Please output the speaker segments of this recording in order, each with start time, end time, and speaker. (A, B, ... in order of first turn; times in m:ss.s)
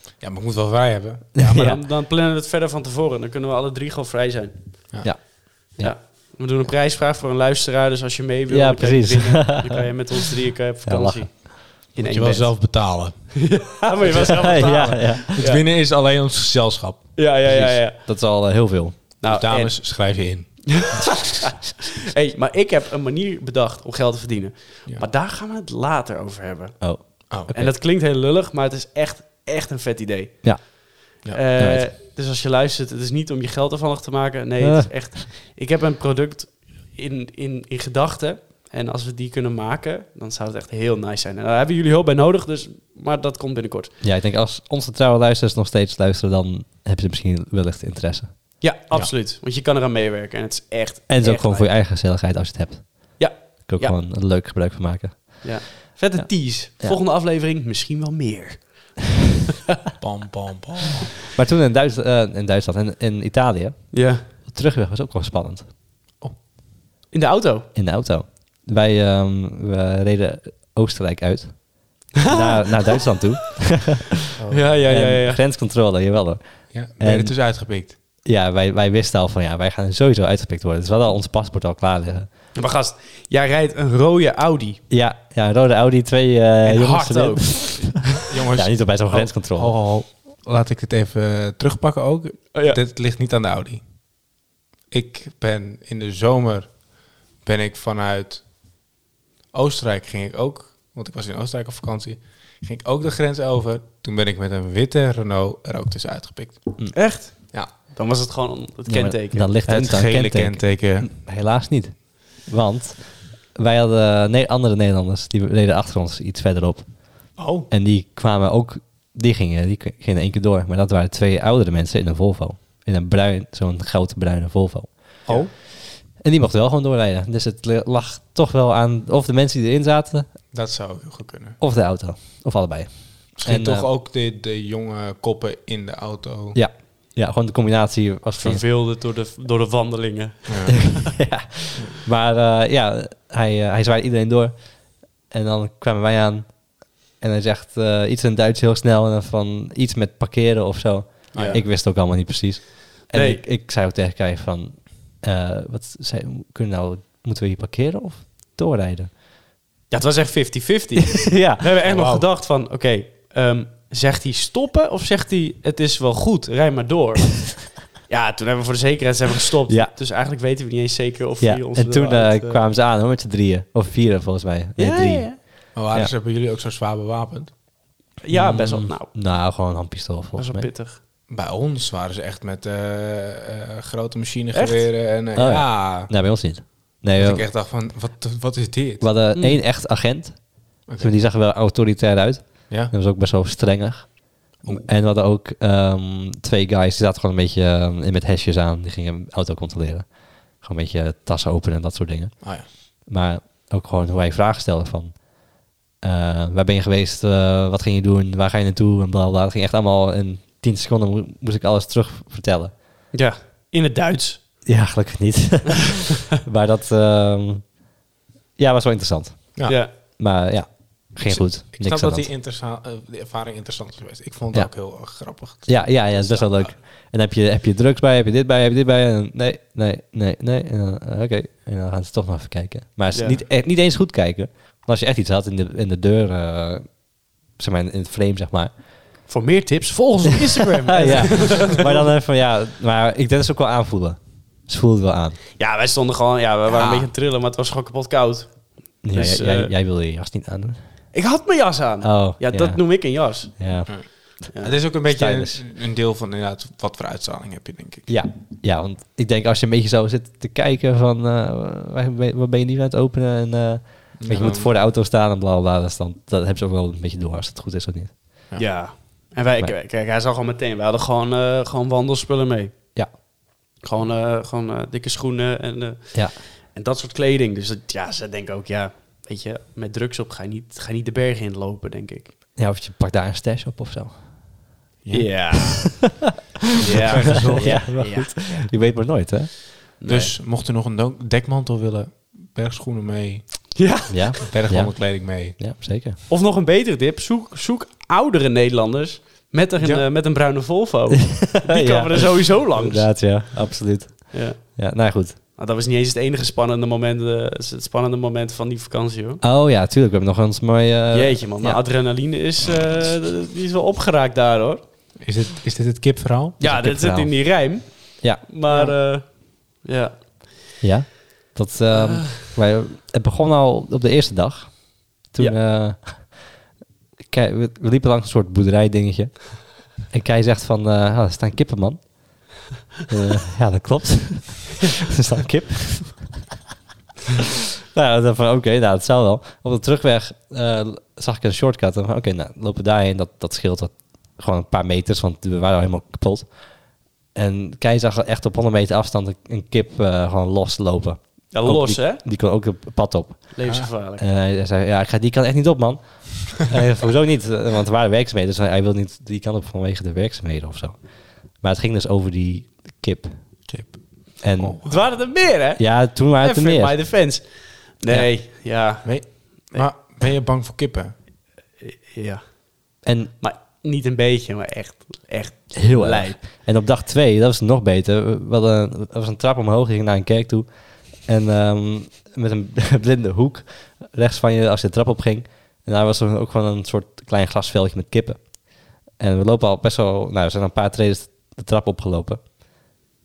0:00.2-0:01.5 A
0:01.4-0:01.8 B
0:01.4-0:15.6 C
0:05.0-0:06.0 B
0:08.5-0:10.0 B
0:10.8-0:11.5 B
0:12.0-0:13.4 A
0:14.0-0:14.6 A
0:14.1-0:15.4 B
0:15.3-0:17.2 A
0:17.2-0:18.0 C
0:17.4-0:19.0 B
0:19.2-0:20.0 C
0:19.3-0:21.1 A
0:20.7-0:30.8 C
0:26.8-0:27.7 B
0:31.3-0:43.9 C
0:31.6-0:31.9 B
0:34.6-0:34.9 B
0:44.0-0:48.6 B
0:48.6-0:51.7 C
0:51.1-0:57.0 B
0:53.2-0:54.0 C
0:55.4-0:59.0 C
1:00.0-1:01.2 A
1:01.4-1:05.7 B
1:03.9-1:04.2 C
1:07.1-1:07.7 C
1:07.8-1:14.2 B
1:12.2-1:12.7 C
1:14.4-1:14.7 A
1:14.5-1:15.4 C
1:14.8-1:17.4 B
1:16.7-1:18.0 A
1:18.2-1:22.3 B
1:22.6-1:24.8 C
1:24.9-1:29.7 B
1:26.6-1:28.0 C
1:27.9-1:33.8 A
1:32.5-1:32.8 C
1:34.9-1:36.8 A
1:37.4-1:38.4 A
1:39.5-1:47.0 A
1:46.9-1:49.5 C
1:48.9-2:10.3 B
1:49.7-1:51.1 A
1:57.4-1:57.7 A
2:05.3-2:05.5 C
2:10.5-2:11.6 A
2:11.6-2:13.9 B
2:13.4-2:16.6 A
2:16.6-2:18.6 B
2:18.4-2:21.1 C
2:20.5-2:21.0 A
2:20.9-2:39.1 B
2:31.3-2:31.6 A
2:31.3-2:31.6 C
2:33.1-2:33.4 C
2:39.9-2:52.6 C
2:41.3-2:41.6 B
2:41.8-2:42.2 A
2:51.4-2:56.1 B
2:54.8-2:55.4 C
2:55.7-2:57.5 A
2:58.2-2:59.1 C
2:58.3-3:00.7 B
3:00.4-3:01.0 C
3:01.3-3:06.1 A
3:04.5-3:04.9 C
3:05.4-3:07.4 B
3:07.2-3:09.1 A
3:09.0-3:32.7 B
3:09.4-3:09.6 C
3:10.9-3:11.2 A
3:33.1-3:34.4 C
3:34.6-3:37.8 B
3:38.6-3:42.3 B
3:39.6-3:39.9 C
3:41.2-3:46.8 A
3:45.6-3:58.7 B
3:53.1-3:53.4 C
3:59.3-4:02.1 C
4:00.9-4:05.4 B
4:05.6-4:09.7 C
4:06.7-4:07.1 A
4:09.0-4:10.8 B
4:11.1-4:13.8 C
4:12.0-4:12.8 B
4:13.5-4:14.4 B
4:14.5-4:14.8 C
4:14.6-4:18.1 A
4:15.1-4:15.6 B
4:18.1-4:28.2 B
4:24.2-4:24.7 A
4:28.6-4:33.0 C
4:33.8-4:42.3 C
4:42.6-4:44.2 B
4:45.0-4:45.6 A
4:45.1-4:46.1 C
4:46.8-4:48.7 C
4:46.9-4:47.9 A
4:47.4-4:49.7 B
4:50.0-4:50.3 C
4:50.1-4:53.8 A
4:53.8-4:54.4 C
4:54.1-4:56.2 B
4:54.5-4:55.6 A
4:56.3-5:03.4 C
4:59.8-5:00.1 A
5:01.4-5:05.4 B
5:04.3-5:04.8 C
5:05.6-5:09.4 C
5:09.4-5:11.8 B
5:11.1-5:14.8 C
5:15.2-5:16.6 A
5:16.6-5:20.4 C
5:16.6-5:17.5 B
5:18.7-5:18.9 A
5:20.8-5:26.6 B
5:21.9-5:22.2 C
5:27.3-5:36.4 B
5:37.9-6:03.6 B
5:51.5-5:52.2 C
5:53.5-5:54.2 C
6:03.7-6:05.0 A
6:04.4-6:07.1 B
6:04.8-6:09.9 C
6:09.0-6:11.2 A
6:11.8-6:16.4 C
6:13.0-6:13.3 B
6:15.7-6:32.4 B